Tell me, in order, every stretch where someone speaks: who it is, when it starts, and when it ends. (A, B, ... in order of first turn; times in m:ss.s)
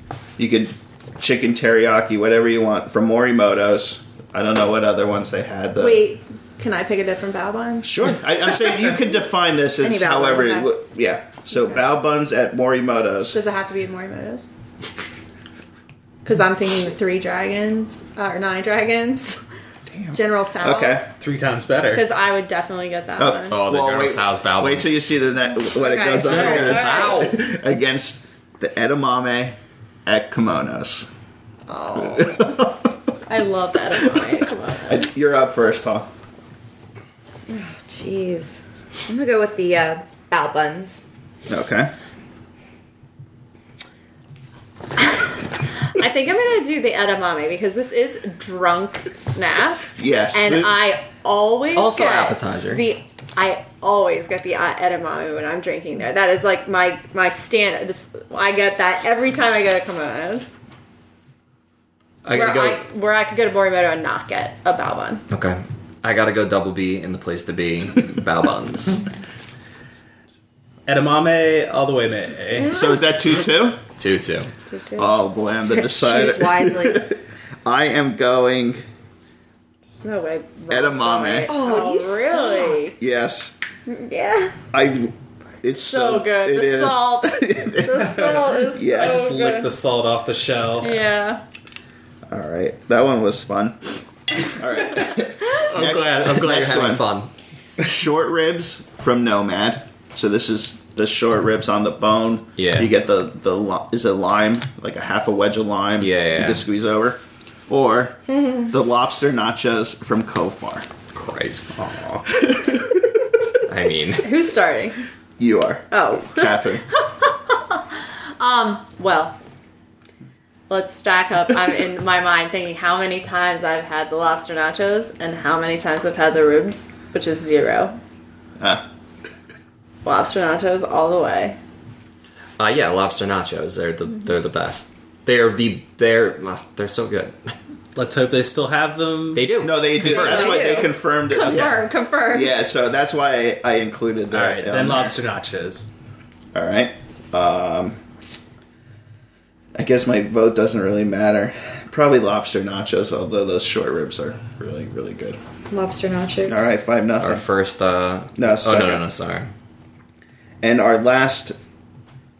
0:00.4-0:06.0 A
0:05.8-0:07.9 B
0:07.8-0:13.4 A
0:09.8-0:10.6 C
0:10.1-0:10.6 B
0:13.3-0:14.5 B
0:16.2-0:19.4 B
0:19.9-0:21.1 A
0:20.1-0:21.1 B
0:21.2-0:22.0 D
0:21.9-0:23.6 B
0:23.2-0:31.1 A
0:23.5-0:25.0 E
0:25.7-0:27.3 B
0:26.2-0:27.4 E
0:31.7-0:32.6 B
0:32.0-0:33.0 A
0:33.3-0:35.1 B
0:34.9-0:36.1 A
0:37.5-0:41.0 C
0:41.5-0:41.9 A
0:45.0-1:00.5 B
0:50.0-0:50.8 A
0:51.8-0:52.8 E
1:02.2-1:02.8 E
1:02.3-1:05.2 B
1:05.3-1:09.1 E
1:10.9-1:12.7 D
1:12.5-1:13.0 B
1:12.7-1:13.8 A
1:14.0-1:14.5 E
1:14.7-1:15.1 B
1:15.0-1:18.8 A
1:15.8-1:17.1 C
1:20.0-1:23.0 B
1:20.7-1:21.5 A
1:21.5-1:22.9 C
1:23.0-1:23.5 A
1:23.9-1:24.6 B
1:24.7-1:29.4 A
1:25.8-1:29.7 B
1:28.0-1:31.0 D
1:30.8-1:31.4 B
1:32.3-1:37.0 A
1:35.6-1:37.3 E
1:37.8-1:50.9 A
1:42.6-1:42.9 E
1:46.0-1:46.6 E
1:51.1-1:51.7 E
1:51.8-1:52.2 D
1:52.3-1:53.2 A
1:53.6-1:54.3 E
1:54.2-1:55.0 B
1:55.4-1:56.8 A
1:55.9-1:59.4 B
2:00.7-2:08.0 B
2:08.6-2:08.8 A
2:10.0-2:11.6 B
2:12.6-2:17.5 E
2:18.0-2:19.6 D
2:19.4-2:20.8 E
2:19.6-2:21.8 A
2:20.0-2:22.6 B
2:22.3-2:25.2 A
2:24.3-2:25.9 D
2:26.6-2:28.0 A
2:29.8-2:35.4 A
2:35.7-2:36.6 C
2:36.5-2:37.4 A
2:37.2-2:39.5 E
2:38.4-2:39.0 A
2:40.6-2:41.6 A